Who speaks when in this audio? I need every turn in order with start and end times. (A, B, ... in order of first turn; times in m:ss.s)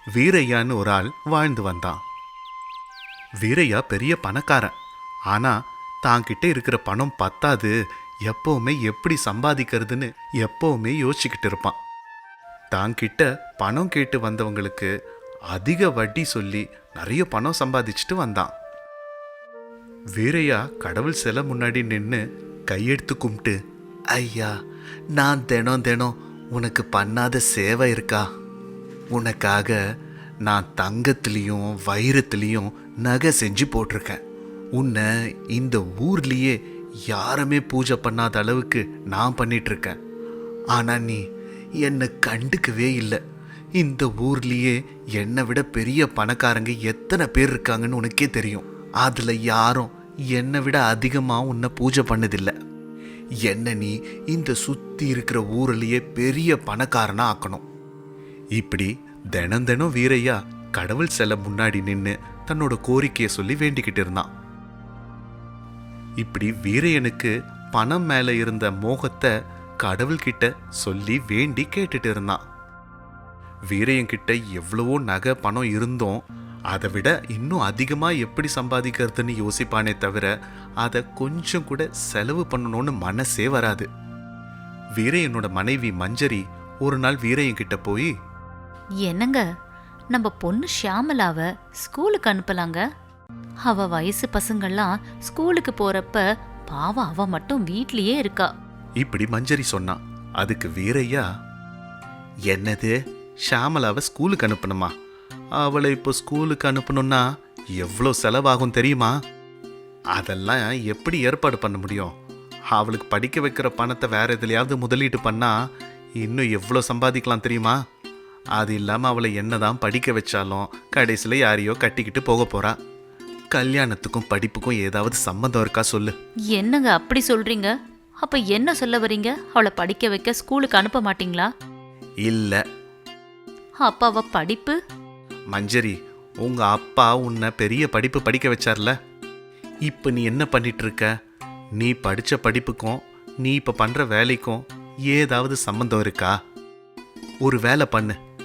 0:00.2-0:02.0 A
0:03.4-0:04.7 A
0:05.3-0:07.7 A
0:08.3-0:11.8 A
0:12.7-0:14.9 A
0:15.5-0:18.5 A
0:20.2-0:23.6 A
0:24.1-0:24.5 A
0:25.1-0:28.2 A
0:29.1-0:29.8 A
0:30.4-0:34.2 A
0:34.8-0:36.6 A
0:37.1-0:40.0 A
0:40.7-0:41.2 A
0:41.8-0:43.2 A
0:43.8-0:52.5 A
0:53.4-0:57.6 A
0:58.6-1:04.3 A
1:06.2-1:12.4 A
1:13.7-1:16.2 A
1:16.7-1:23.9 A
1:25.0-1:28.1 A
1:29.0-1:29.5 B
1:30.1-1:32.8 B
1:33.6-1:38.5 B
1:39.0-1:41.2 A
1:42.5-1:44.9 A
1:45.6-1:49.2 A
1:50.1-1:52.1 A
1:52.7-1:55.6 A
1:56.2-1:57.8 A
1:58.6-2:02.8 A
2:03.5-2:06.1 A
2:06.5-2:11.5 B
2:12.2-2:12.6 A
2:13.8-2:14.8 B
2:15.5-2:19.0 A
2:19.9-2:21.1 A
2:21.8-2:26.3 A
2:27.4-2:28.2 A